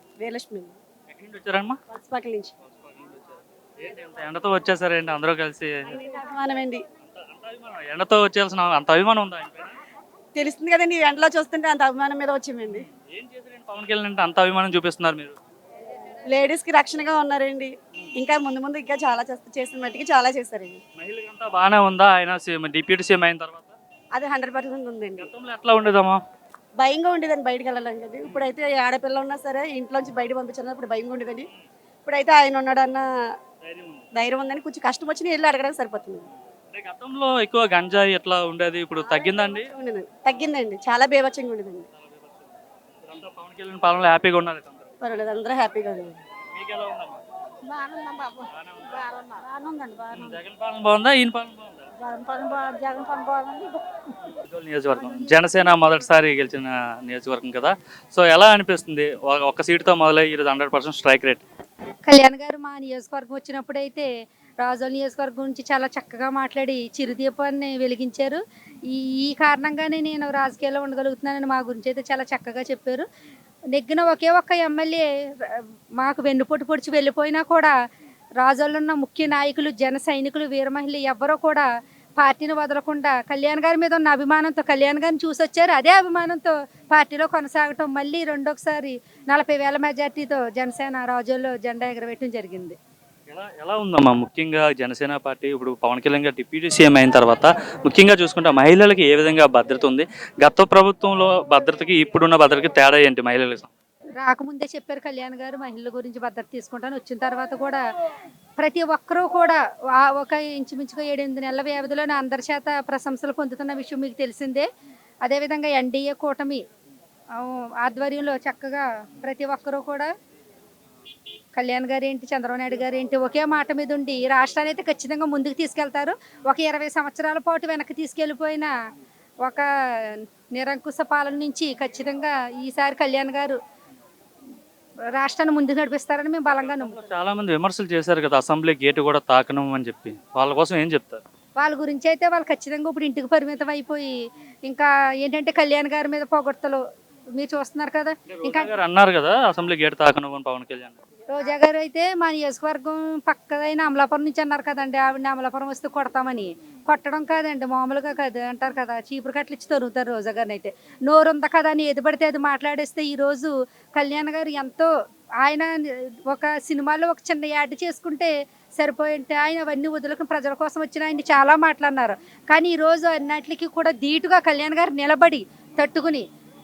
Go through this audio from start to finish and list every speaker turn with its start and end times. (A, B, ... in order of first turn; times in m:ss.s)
0:00.2-0:00.8 A
0:01.1-0:01.8 B
0:01.9-0:02.5 A
0:02.6-0:06.0 B
0:06.0-0:06.8 A
0:07.0-0:09.8 B
0:10.4-0:12.9 A
0:12.7-0:15.4 B
0:16.3-0:20.8 A
0:21.0-0:23.8 B
0:24.1-0:25.3 A
0:25.2-0:26.2 B
0:26.8-0:31.5 A
0:32.0-0:33.1 A
0:33.6-0:34.0 B
0:34.2-0:36.3 A
0:36.7-0:39.7 B
0:39.0-0:41.9 A
0:41.9-0:42.5 B
0:43.0-0:44.9 B
0:45.0-0:46.2 A
0:46.5-0:47.2 B
0:47.7-0:48.4 A
0:48.5-0:49.0 B
0:49.0-0:50.4 A
0:50.1-0:51.9 B
0:52.0-0:53.7 A
0:54.3-1:01.4 B
0:55.1-0:55.3 C
1:02.1-1:04.1 C
1:04.6-1:13.0 C
1:13.7-1:17.7 C
1:18.4-1:21.6 C
1:22.2-1:32.8 C
1:33.3-1:43.7 B
1:44.2-1:47.8 C
1:48.6-1:54.6 C
1:55.2-1:56.6 C
1:57.4-2:00.1 C
2:01.5-2:08.7 C
2:09.4-2:13.6 C
2:15.2-2:17.0 C
2:16.5-2:21.2 B
2:21.6-2:24.1 C
2:24.7-2:26.8 C
2:27.4-2:28.8 C
2:28.3-2:31.0 B
2:31.3-2:44.9 C
2:45.4-2:56.2 C